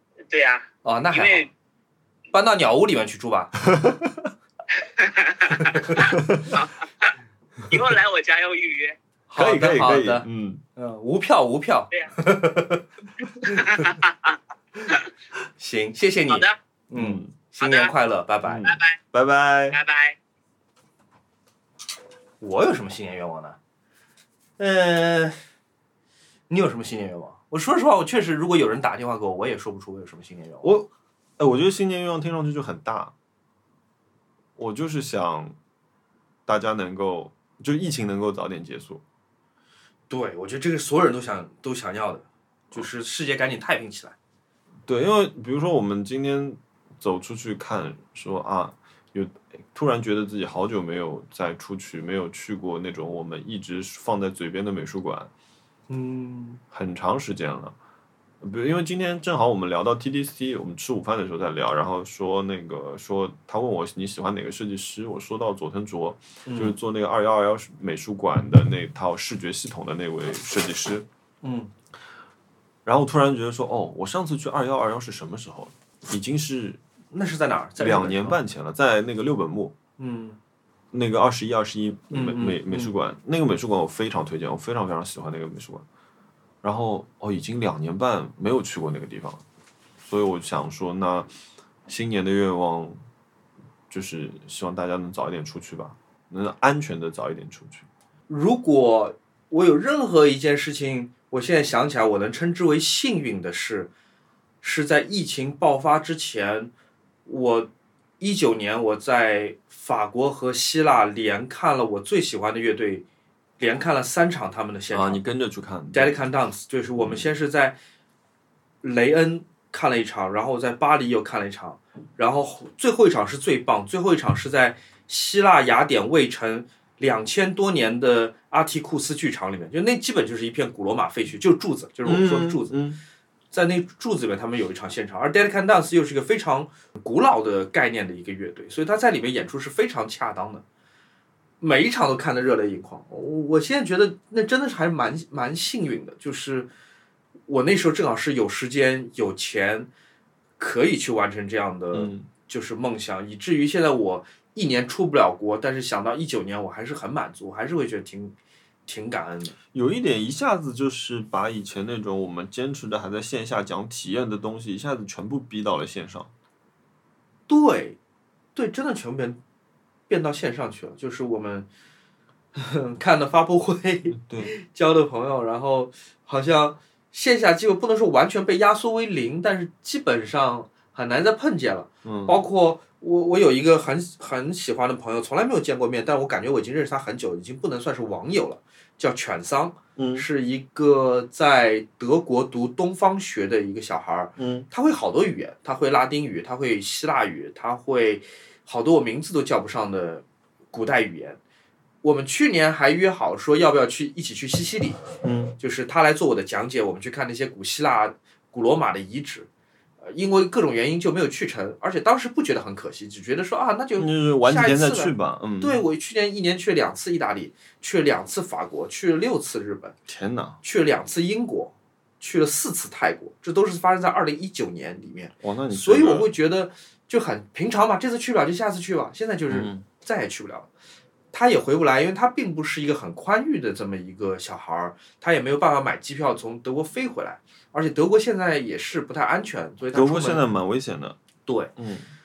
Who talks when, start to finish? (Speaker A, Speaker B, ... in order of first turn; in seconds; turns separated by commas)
Speaker A: 0.3-1.5, Speaker B: 0.8-1.5, Speaker B: 2.3-3.5, Speaker C: 3.6-4.3, Speaker A: 5.0-7.1, Speaker C: 6.0-6.5, Speaker A: 7.7-8.9, Speaker B: 9.3-12.8, Speaker C: 9.3-10.6, Speaker A: 13.4-14.4, Speaker B: 15.6-18.7, Speaker A: 16.3-16.6, Speaker C: 16.9-17.3, Speaker A: 17.6-17.9, Speaker C: 18.4-19.8, Speaker A: 18.6-19.0, Speaker A: 19.7-20.1, Speaker B: 22.4-23.6, Speaker B: 24.6-25.4, Speaker B: 26.5-30.7, Speaker C: 30.6-33.1, Speaker C: 34.6-35.5, Speaker C: 36.5-39.0, Speaker B: 40.1-44.1, Speaker C: 44.9-55.3, Speaker B: 55.9-56.6, Speaker C: 56.7-57.7, Speaker C: 58.4-71.1, Speaker B: 66.4-66.8, Speaker B: 71.4-71.7, Speaker C: 72.8-76.8, Speaker B: 77.1-78.4, Speaker C: 77.8-79.8, Speaker B: 80.0-80.4, Speaker C: 80.9-85.8, Speaker B: 82.1-82.9, Speaker C: 86.6-89.4, Speaker C: 90.0-91.3, Speaker C: 91.9-93.0, Speaker C: 93.9-97.9, Speaker B: 98.3-103.9, Speaker B: 104.6-106.7, Speaker B: 107.2-113.0, Speaker B: 113.6-115.2, Speaker C: 114.9-116.3, Speaker B: 115.9-117.8, Speaker C: 117.0-117.3, Speaker B: 118.8-132.8, Speaker C: 132.0-133.0, Speaker B: 133.5-140.6, Speaker B: 141.6-146.7, Speaker B: 147.5-149.9, Speaker B: 150.6-158.3, Speaker C: 151.9-152.3, Speaker B: 158.9-159.5, Speaker C: 159.7-166.3, Speaker B: 167.5-168.0, Speaker B: 168.5-169.4, Speaker B: 170.1-171.7, Speaker B: 172.5-201.4, Speaker C: 174.1-174.5, Speaker C: 182.0-182.4, Speaker C: 189.9-190.3, Speaker C: 194.4-194.7, Speaker B: 202.0-205.0, Speaker C: 205.2-205.5, Speaker B: 205.6-209.5, Speaker B: 210.0-219.9, Speaker C: 214.0-215.8, Speaker C: 220.1-220.6, Speaker B: 220.6-230.7, Speaker C: 225.4-226.3, Speaker C: 229.5-229.8, Speaker B: 231.3-240.4, Speaker C: 239.9-241.2, Speaker B: 241.4-241.7, Speaker C: 241.8-242.1